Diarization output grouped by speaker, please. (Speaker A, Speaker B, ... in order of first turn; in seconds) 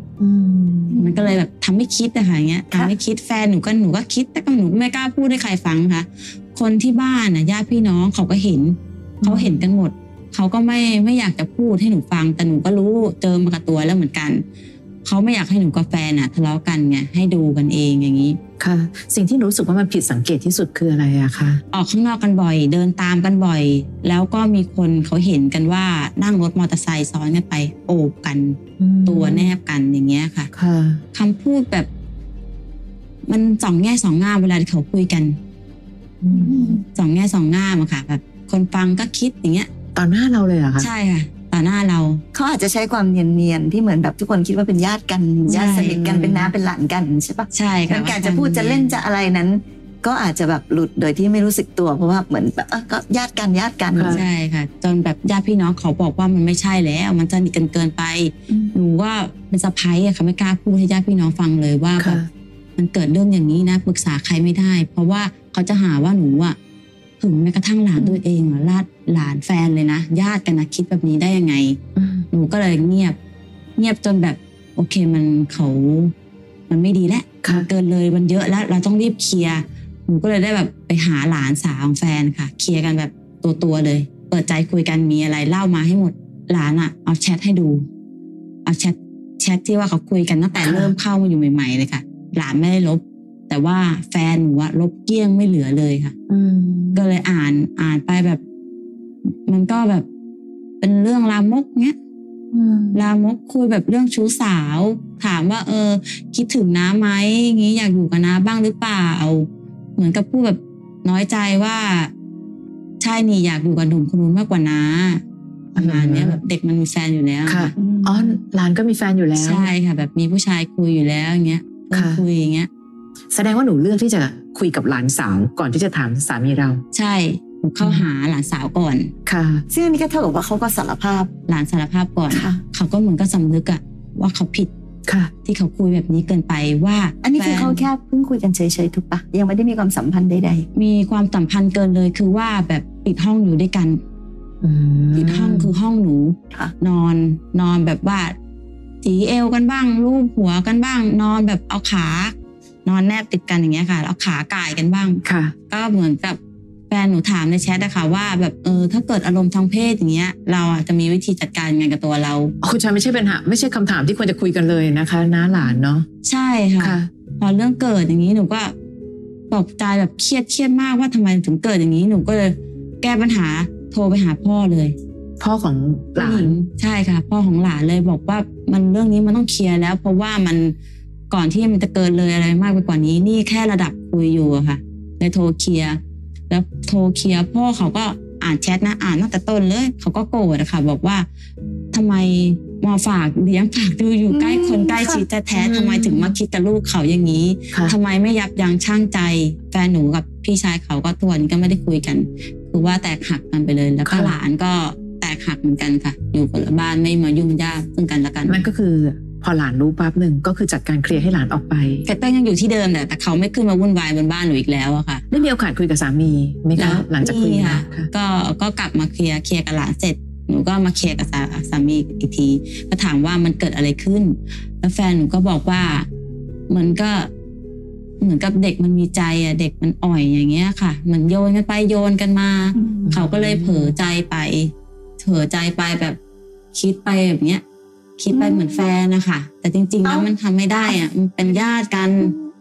Speaker A: 0.2-1.1, 9.2-9.6, 18.6-21.6, 28.8-29.5, 30.5-31.0, 36.2-36.8, 40.0-40.9, 45.5-46.5, 53.9-54.2, 62.0-62.3, 72.0-72.3, 90.6-90.9, 96.3-97.1, 102.5-103.0, 115.8-116.4, 117.5-119.7, 121.9-122.2, 123.3-126.8, 127.8-128.1, 129.3-129.7, 135.1-135.3, 144.6-145.7, 155.2-155.5, 162.6-166.1, 166.8-167.1, 175.4-176.5, 195.5-196.3, 204.1-204.4, 208.5-212.1, 215.3-218.1, 233.1-233.9
Speaker B: 0.9-1.3, 36.3-36.8, 42.3-54.2, 117.8-118.4, 129.7-131.3, 132.3-132.6, 137.2-140.7, 194.3-195.2, 232.8-233.2, 238.3-238.9, 240.0-240.3, 242.2-242.4
Speaker C: 0.9-14.4, 15.0-18.4, 21.7-30.5, 31.1-31.9, 33.3-35.4, 36.9-39.7, 40.8-42.2, 45.5-46.0, 47.5-49.0, 54.1-62.2, 62.8-66.6, 67.2-71.8, 72.3-73.2, 73.8-76.1, 76.7-87.9, 88.7-96.2, 96.9-98.4, 99.5-100.1, 100.8-102.0, 102.9-112.1, 113.0-115.2, 115.8-117.7, 119.4-122.7, 126.9-129.1, 131.5-134.7, 135.5-137.8, 140.8-144.0, 145.2-148.4, 149.0-156.4, 156.9-162.5, 166.2-168.7, 169.5-175.0, 176.2-180.8, 181.3-191.3, 191.9-208.7, 212.1-215.2, 216.8-226.1, 226.7-227.3, 228.2-236.2, 236.7-237.6, 238.2-242.3